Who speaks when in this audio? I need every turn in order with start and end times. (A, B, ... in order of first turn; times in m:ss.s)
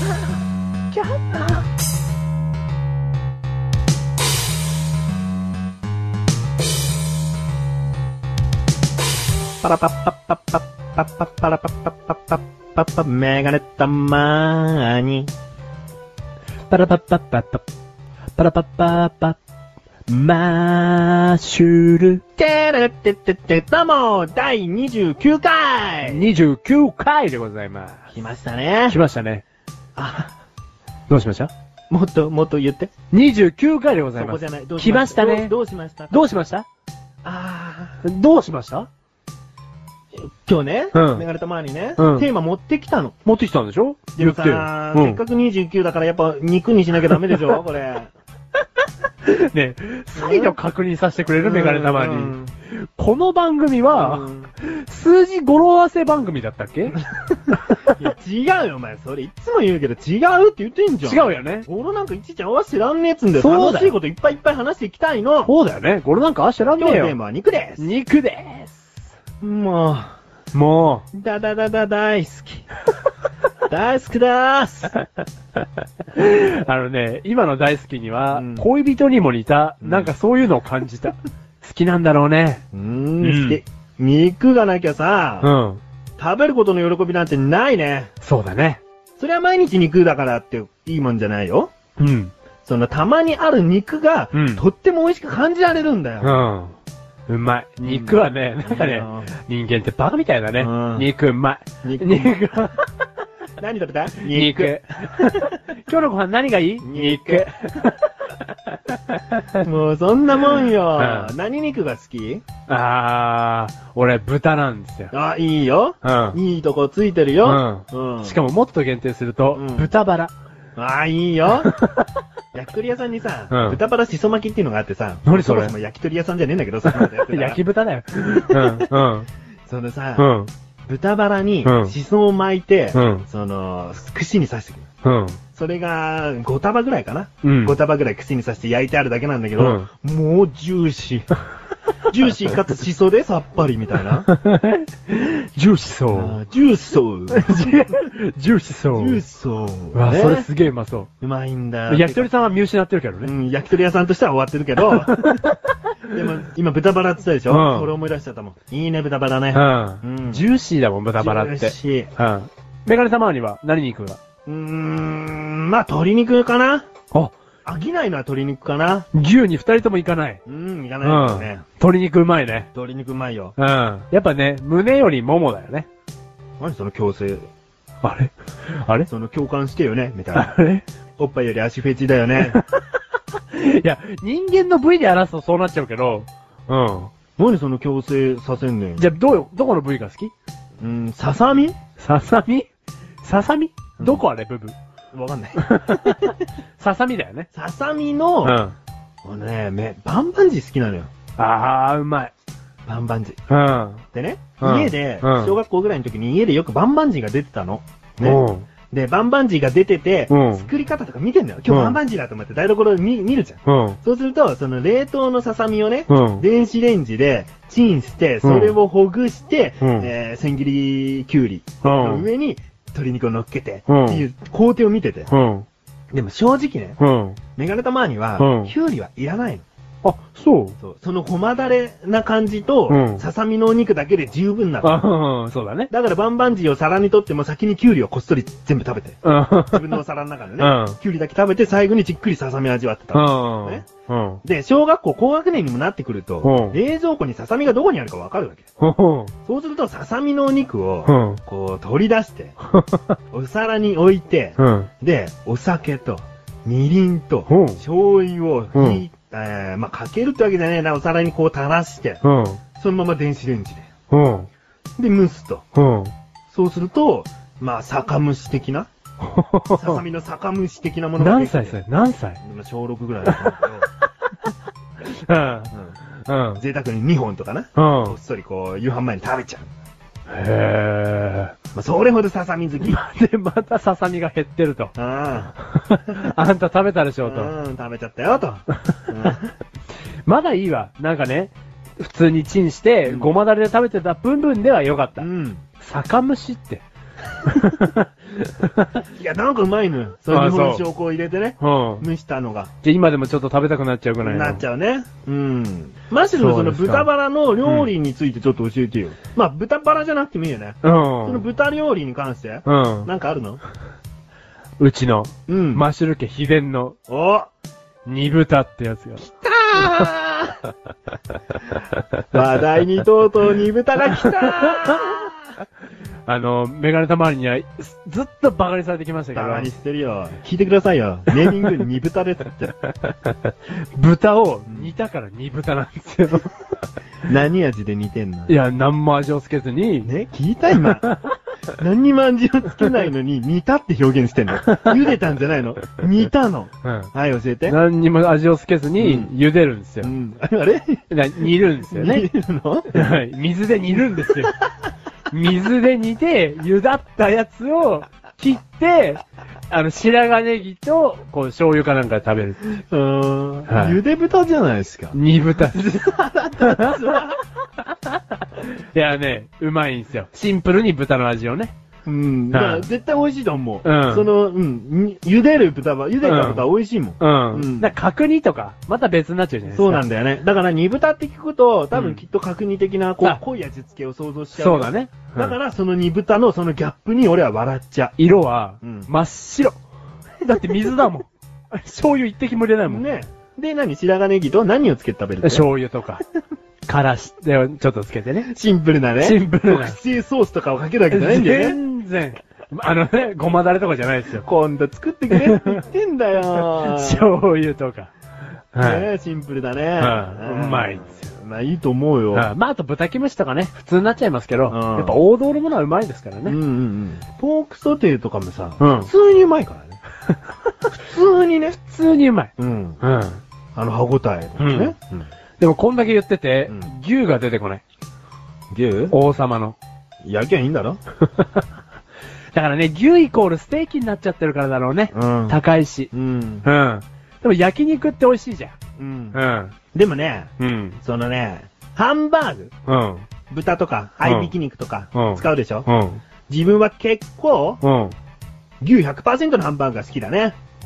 0:00.9-0:01.6 A
0:09.6-0:15.3 B
0:16.7-0:17.6 A
0:18.4-0:19.4 A
0:20.1-0:22.2 A
0:22.4-0:26.3 B
0:26.0-0:28.1 A
0:28.1-0:29.0 B
0:28.9-0:29.4 A
0:30.0-0:30.3 B
0:31.1-0:31.5 A
0:31.9-0:32.9 B
0:33.1-0:35.5 A
0:34.2-0:36.3 B
0:36.1-0:36.7 A
0:37.2-0:38.0 B
0:38.0-0:38.9 A
0:40.2-0:43.2 B
0:40.9-0:41.2 A
0:42.0-0:42.3 A
0:43.2-0:45.2 A
0:44.2-0:48.1 B
0:49.3-0:57.0 A
0:50.2-0:50.6 B
0:51.4-0:52.5 B
0:53.9-0:54.5 B
0:56.9-1:05.5 B
0:57.7-0:57.9 A
1:01.0-1:01.7 A
1:03.4-1:04.0 A
1:05.4-1:07.2 A
1:06.8-1:07.9 B
1:07.8-1:09.1 A
1:09.4-1:10.2 B
1:10.5-1:11.1 A
1:11.1-1:12.7 B
1:13.7-1:14.9 B
1:16.1-1:22.6 A
1:18.3-1:18.7 B
1:19.8-1:20.1 B
1:22.7-1:25.5 B
1:23.2-1:23.6 A
1:25.4-1:25.8 A
1:26.2-1:28.1 B
1:28.2-1:28.8 A
1:29.2-1:31.7 B
1:32.0-1:32.3 A
1:32.6-1:36.5 B
1:34.3-1:34.6 A
1:36.2-1:36.8 A
1:37.3-1:42.9 A
1:37.9-1:39.3 B
1:40.6-1:41.1 B
1:41.8-1:42.4 B
1:43.6-1:45.6 B
1:44.2-1:48.0 A
1:46.8-1:47.5 B
1:48.7-1:49.6 A
1:49.6-1:52.4 B
1:51.0-1:51.3 A
1:52.7-1:55.1 A
1:55.1-1:58.4 B
1:56.0-1:56.4 A
1:57.4-2:00.3 A
1:59.5-1:59.9 B
2:00.8-2:01.7 B
2:01.6-2:02.0 A
2:02.5-2:07.6 B
2:03.5-2:03.8 A
2:05.3-2:05.7 A
2:06.8-2:09.3 A
2:08.3-2:08.9 B
2:09.7-2:10.3 B
2:10.2-2:10.5 A
2:10.9-2:14.9 B
2:11.6-2:12.0 A
2:12.9-2:13.2 A
2:15.0-2:15.4 A
2:15.6-2:21.3 B
2:17.4-2:17.8 A
2:19.6-2:19.9 A
2:22.1-2:24.3 B
2:24.3-2:26.4 A
2:26.1-2:27.8 B
2:27.3-2:29.2 A
2:29.0-2:30.5 B
2:29.9-2:31.1 A
2:31.2-2:32.3 B
2:31.9-2:33.3 A
2:33.2-2:35.5 B
2:34.9-2:35.6 A
2:36.1-2:40.4 B
2:37.5-2:37.9 A
2:39.5-2:44.2 A
2:41.2-2:42.1 B
2:44.5-2:46.9 B
2:47.6-2:49.1 B
2:49.1-2:50.4 A
2:50.5-2:51.6 B
2:51.0-2:52.7 A
2:52.7-2:53.6 B
2:53.6-2:55.9 A
2:56.6-2:57.5 B
2:58.0-2:59.1 A
2:59.1-3:00.6 B
3:00.3-3:00.8 A
3:01.2-3:02.6 B
3:02.4-3:02.8 A
3:03.5-3:07.1 A
3:07.4-3:09.1 B
3:09.0-3:10.3 A
3:10.8-3:11.8 B
3:12.0-3:12.7 A
3:13.2-3:14.8 A
3:14.0-3:14.2 B
3:15.1-3:15.6 B
3:15.6-3:17.5 A
3:17.5-3:18.6 B
3:18.4-3:18.8 A
3:19.2-3:21.1 B
3:21.4-3:22.3 A
3:22.9-3:23.4 B
3:23.5-3:24.0 A
3:24.1-3:45.3 B
3:24.6-3:25.6 A
3:28.2-3:28.7 A
3:30.3-3:30.7 A
3:31.7-3:32.0 A
3:33.7-3:34.0 A
3:36.1-3:36.4 A
3:38.4-3:38.8 A
3:39.8-3:40.1 A
3:41.8-3:42.3 A
3:43.9-3:44.2 A
3:45.3-3:45.7 A
3:46.1-3:47.0 B
3:47.0-3:47.4 A
3:47.6-3:49.6 B
3:48.4-3:48.7 A
3:50.0-3:50.8 A
3:50.8-3:55.1 B
3:52.9-3:53.2 A
3:54.8-3:55.9 A
3:55.9-4:03.8 B
3:59.2-4:00.0 A
4:00.6-4:01.0 A
4:03.1-4:04.4 A
4:04.4-4:08.7 B
4:06.4-4:06.8 A
4:08.8-4:09.3 A
4:09.5-4:12.6 B
4:11.1-4:11.4 A
4:12.8-4:13.0 A
4:13.3-4:22.2 B
4:14.6-4:14.9 A
4:17.5-4:17.8 A
4:18.8-4:19.0 A
4:22.2-4:22.6 A
4:22.8-4:23.9 B
4:24.1-4:24.5 A
4:25.0-4:25.6 B
4:25.8-4:26.1 A
4:26.5-4:28.9 B
4:29.2-4:30.0 A
4:29.8-4:31.8 B
4:31.2-4:32.4 A
4:32.4-4:33.9 B
4:33.2-4:33.6 A
4:35.1-4:35.7 A
4:35.7-4:36.0 B
4:36.2-4:36.6 A
4:36.6-4:39.7 B
4:37.8-4:38.2 A
4:40.3-4:41.5 A
4:41.7-4:43.0 B
4:42.8-4:44.9 A
4:45.0-4:45.5 B
4:45.7-4:47.5 A
4:46.1-4:46.4 B
4:47.2-4:49.5 B
4:50.3-4:55.3 A
4:53.1-4:53.3 B
4:55.2-4:55.6 B
4:55.8-4:56.8 A
4:57.4-4:59.0 A
4:59.2-5:02.7 B
5:00.3-5:00.8 A
5:01.6-5:02.0 A
5:02.8-5:04.6 A
5:04.2-5:13.6 B
5:06.3-5:07.1 A
5:07.6-5:07.9 A
5:10.8-5:11.5 A
5:12.7-5:13.1 A
5:14.8-5:17.0 A
5:15.5-5:15.9 B
5:17.1-5:17.5 B
5:18.0-5:19.2 A
5:19.2-5:20.6 B
5:22.3-5:25.4 B
5:24.6-5:25.1 A
5:26.3-5:29.7 A
5:29.3-5:32.7 B
5:33.8-5:36.6 A
5:34.7-5:34.9 B
5:37.3-5:38.6 B
5:38.5-5:40.1 A
5:40.0-5:41.1 B
5:41.8-5:47.8 B
5:44.6-5:45.0 A
5:46.8-5:47.1 A
5:47.7-5:50.1 A
5:49.0-5:49.3 B
5:50.0-5:51.0 B
5:51.1-5:52.3 A
5:51.9-5:53.1 B
5:52.9-5:54.5 A
5:54.3-5:54.6 B
5:55.3-6:02.7 A
6:02.8-6:05.2 B
6:03.7-6:04.0 A
6:05.1-6:07.3 A
6:06.1-6:07.4 B
6:08.4-6:11.8 A
6:12.0-6:18.0 B
6:12.5-6:12.9 A
6:13.8-6:14.3 A
6:16.2-6:16.7 A
6:17.2-6:20.0 A
6:19.7-6:28.2 B
6:21.9-6:22.2 A
6:24.5-6:25.6 A
6:28.2-6:29.8 A
6:28.8-6:29.1 B
6:30.4-6:33.0 A
6:30.7-6:31.0 B
6:32.8-6:35.7 B
6:35.4-6:36.2 A
6:36.9-6:38.5 A
6:38.5-6:41.8 B
6:39.2-6:40.0 A
6:41.1-6:44.4 A
6:44.4-6:47.3 B
6:45.3-6:45.8 A
6:46.5-6:48.1 A
6:48.7-6:49.1 A
6:48.8-6:52.5 B
6:50.0-6:51.3 A
6:52.3-6:56.6 A
6:54.7-6:55.2 B
6:56.4-7:00.0 B
6:58.8-6:59.1 A
7:00.9-7:01.8 B
7:01.8-7:03.4 A
7:02.6-7:03.0 B
7:03.8-7:05.3 B
7:04.6-7:04.9 A
7:05.6-7:07.8 A
7:08.7-7:09.2 B
7:09.1-7:09.8 A
7:10.2-7:11.0 B
7:12.5-7:16.1 A
7:15.1-7:15.6 B
7:16.1-7:16.7 B
7:16.6-7:18.7 A
7:19.0-7:19.4 B
7:19.3-7:19.8 A
7:19.9-7:22.7 B
7:20.6-7:21.0 A
7:22.9-7:23.3 A
7:23.5-7:25.9 B
7:24.2-7:24.5 A
7:25.2-7:26.2 A
7:26.5-7:27.8 B
7:27.8-7:28.2 A
7:28.8-7:30.6 B